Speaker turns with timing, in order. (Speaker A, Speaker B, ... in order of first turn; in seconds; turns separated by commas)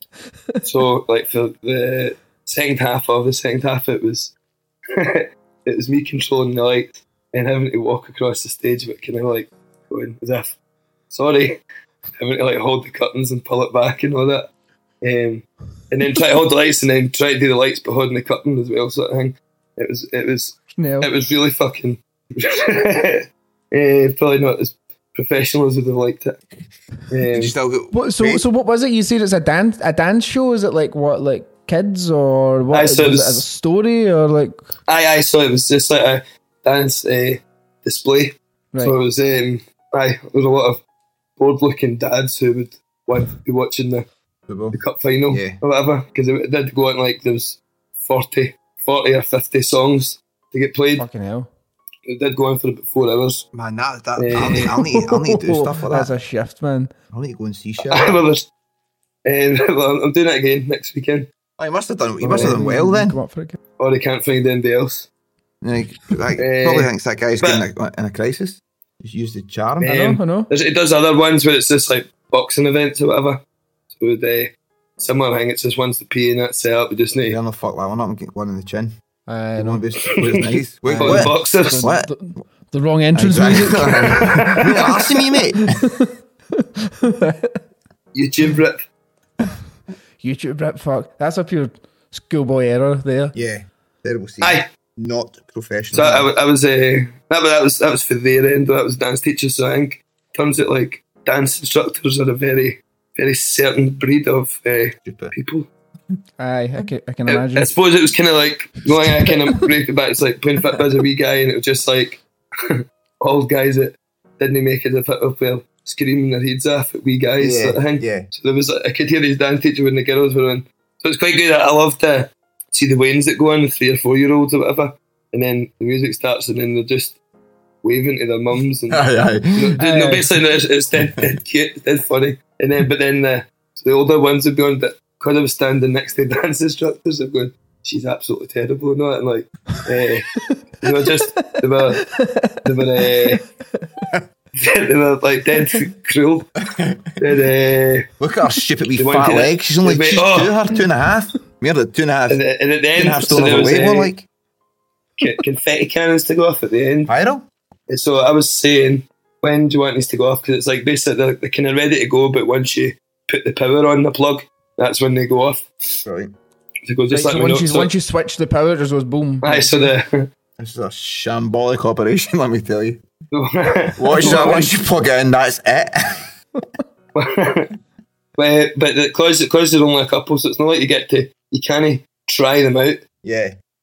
Speaker A: 0.6-4.3, Speaker A: 4.9-10.5, Speaker A: 11.1-11.6, Speaker A: 12.2-14.5, Speaker A: 15.0-26.4, Speaker B: 20.8-21.1, Speaker A: 27.1-27.5, Speaker C: 27.3-28.4, Speaker B: 27.9-34.7, Speaker A: 32.7-33.4, Speaker A: 34.9-40.8, Speaker A: 41.4-44.0, Speaker C: 44.5-44.8, Speaker A: 44.7-51.0, Speaker C: 45.3-45.6, Speaker B: 51.0-51.5, Speaker A: 52.1-53.5, Speaker C: 53.5-56.1, Speaker A: 54.2-54.8, Speaker B: 55.4-56.9, Speaker C: 57.1-58.2, Speaker A: 57.8-58.5, Speaker A: 59.2-61.3, Speaker C: 61.6-63.2, Speaker B: 62.2-63.6, Speaker A: 62.3-62.5, Speaker A: 63.8-65.1, Speaker C: 65.6-70.0, Speaker A: 66.4-67.7, Speaker A: 69.8-73.4, Speaker B: 69.8-70.5, Speaker A: 73.9-77.4, Speaker C: 77.2-78.9, Speaker B: 79.3-79.8, Speaker C: 79.5-82.1, Speaker A: 80.1-80.5, Speaker B: 80.8-84.6, Speaker A: 81.0-81.8, Speaker C: 83.1-85.8, Speaker A: 84.0-85.0, Speaker B: 85.8-87.6, Speaker A: 88.1-88.8, Speaker B: 90.2-93.3, Speaker C: 93.3-96.3, Speaker A: 94.4-94.7, Speaker A: 95.9-105.7, Speaker C: 105.0-105.3, Speaker B: 106.4-107.7, Speaker A: 107.3-127.2, Speaker B: 109.0-109.6, Speaker C: 117.4-118.3, Speaker A: 127.8-140.3, Speaker C: 128.9-129.8, Speaker B: 129.8-130.2, Speaker C: 130.9-131.3, Speaker A: 140.8-142.1, Speaker B: 142.0-143.3, Speaker A: 142.6-143.4, Speaker B: 143.8-144.1, Speaker A: 144.6-146.5, Speaker C: 146.7-147.1, Speaker A: 147.2-148.1, Speaker C: 148.2-152.4, Speaker A: 149.0-150.6, Speaker A: 152.3-154.1, Speaker C: 152.9-154.2, Speaker A: 155.2-157.1, Speaker C: 157.1-157.5, Speaker A: 157.9-166.0, Speaker C: 166.0-166.3, Speaker A: 166.8-167.9, Speaker B: 167.1-169.9, Speaker A: 169.4-170.3, Speaker C: 170.6-173.0, Speaker A: 173.3-174.7, Speaker C: 174.0-176.3, Speaker B: 174.3-174.6, Speaker A: 177.2-177.7, Speaker A: 178.4-183.0, Speaker C: 183.2-183.6